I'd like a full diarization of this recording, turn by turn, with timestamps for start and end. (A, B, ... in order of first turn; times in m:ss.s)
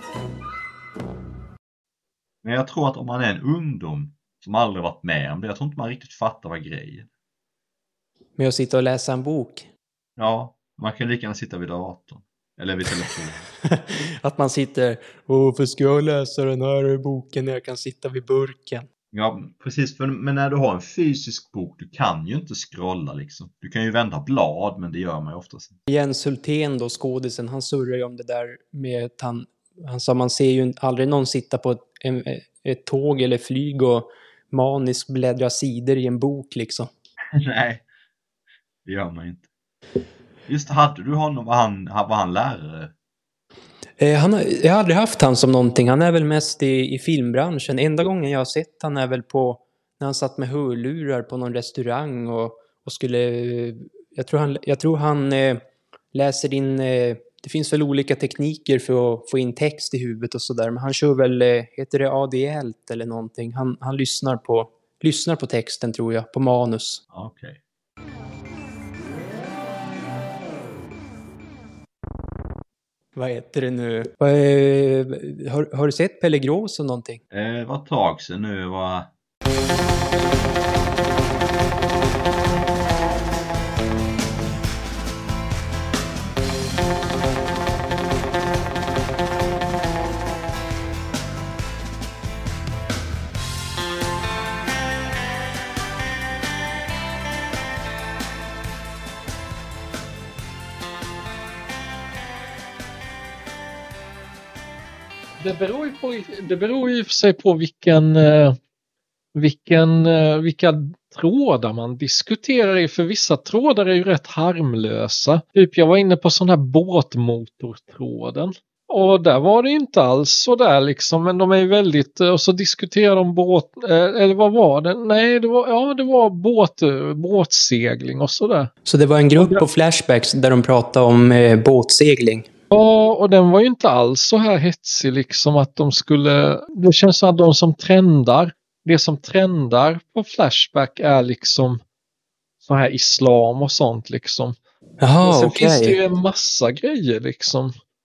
0:02.4-0:07.1 A
0:08.4-0:09.7 B
0:10.2-0:13.5 A
0:13.7-0:18.9 B
0:19.1-0:25.8 A
0:25.9-0:36.9 B
0:37.4-0:37.8 A
0:38.9-0:39.5 A
0:40.5-0:42.9 A
0:44.0-1:07.0 B
1:07.1-1:07.6 A
1:13.1-1:17.2 B
1:17.3-1:19.1 A
1:45.4-1:48.6 C
1:49.4-2:08.7 C
2:08.9-2:12.5 B
2:09.4-2:09.6 C
2:12.7-2:21.8 C
2:22.6-2:24.6 C
2:25.0-2:26.0 B
2:25.2-2:27.7 C